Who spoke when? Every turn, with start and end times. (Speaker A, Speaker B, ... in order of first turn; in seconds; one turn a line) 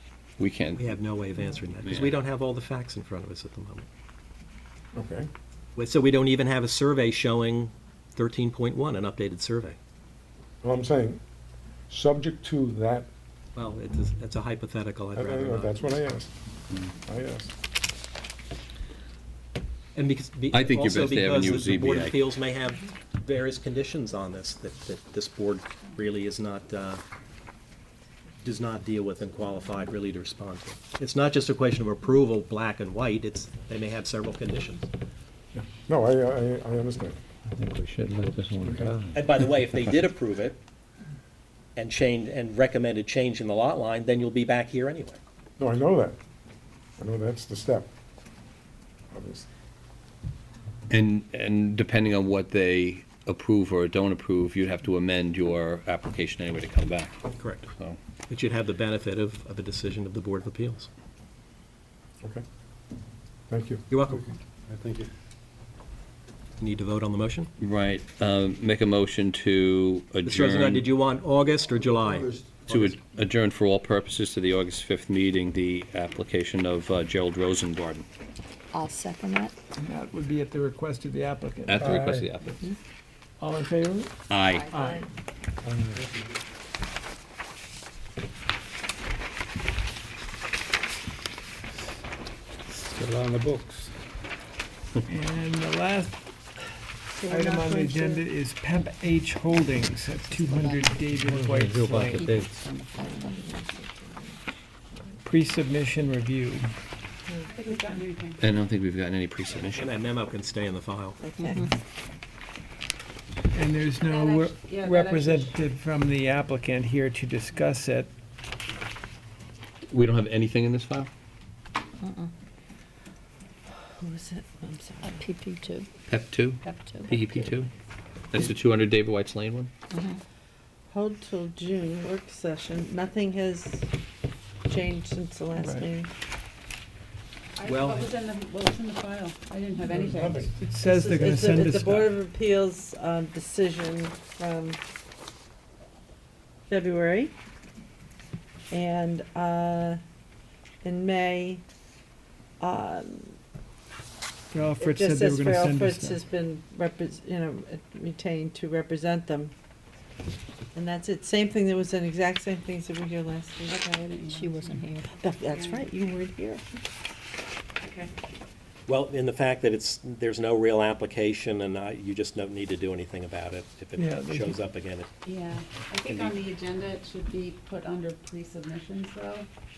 Speaker A: 0.4-1.0
Speaker B: 0.8-3.9
Speaker A: 1.8-2.1
Speaker C: 4.9-5.3
Speaker B: 5.8-9.8
Speaker C: 10.6-11.2
Speaker C: 11.9-13.1
Speaker B: 13.5-16.0
Speaker C: 15.1-16.3
Speaker C: 16.9-17.5
Speaker B: 19.9-27.0
Speaker A: 20.5-22.3
Speaker B: 28.4-34.9
Speaker C: 35.5-37.2
Speaker D: 37.5-39.2
Speaker C: 38.6-39.0
Speaker B: 39.1-40.6
Speaker B: 41.8-45.2
Speaker C: 45.6-46.2
Speaker C: 47.0-47.9
Speaker C: 49.1-49.5
Speaker A: 50.9-58.0
Speaker B: 57.3-57.7
Speaker B: 58.3-60.9
Speaker C: 63.5-63.9
Speaker B: 63.9-64.2
Speaker D: 64.7-65.0
Speaker B: 66.6-67.5
Speaker A: 67.6-70.9
Speaker B: 70.2-73.0
Speaker A: 72.7-78.1
Speaker E: 78.7-79.5
Speaker F: 79.8-82.3
Speaker A: 81.7-82.6
Speaker F: 83.4-84.2
Speaker A: 84.3-84.7
Speaker E: 84.5-84.9
Speaker F: 84.7-85.0
Speaker D: 92.7-93.9
Speaker F: 95.0-96.6
Speaker G: 97.2-98.2
Speaker F: 97.2-102.3
Speaker E: 100.3-101.0
Speaker D: 101.3-102.6
Speaker E: 102.1-103.4
Speaker G: 103.0-104.4
Speaker F: 105.2-106.7
Speaker G: 107.3-108.0
Speaker H: 107.5-108.4
Speaker A: 108.4-109.9
Speaker B: 109.5-111.2
Speaker G: 111.2-111.7
Speaker E: 111.4-111.8
Speaker F: 113.5-118.1
Speaker H: 114.0-115.5
Speaker A: 119.9-121.1
Speaker E: 122.0-122.3
Speaker G: 124.0-125.2
Speaker E: 125.0-125.9
Speaker A: 126.1-127.7
Speaker E: 126.7-127.1
Speaker A: 128.3-129.7
Speaker E: 129.9-130.2
Speaker G: 130.9-133.9
Speaker G: 134.6-136.1
Speaker F: 135.6-135.9
Speaker H: 137.6-140.5
Speaker B: 137.6-138.2
Speaker C: 139.9-140.5
Speaker F: 140.6-142.1
Speaker G: 140.6-144.8
Speaker G: 146.7-147.3
Speaker G: 148.7-150.0
Speaker G: 150.8-151.6
Speaker G: 152.6-153.3
Speaker F: 154.5-156.2
Speaker G: 154.8-159.5
Speaker G: 160.7-163.8
Speaker H: 163.7-164.8
Speaker E: 164.3-165.2
Speaker G: 165.2-166.6
Speaker H: 165.5-165.9
Speaker H: 167.8-168.1
Speaker B: 168.9-175.1
Speaker F: 174.0-174.6
Speaker H: 175.2-179.5
Speaker A: 176.1-176.3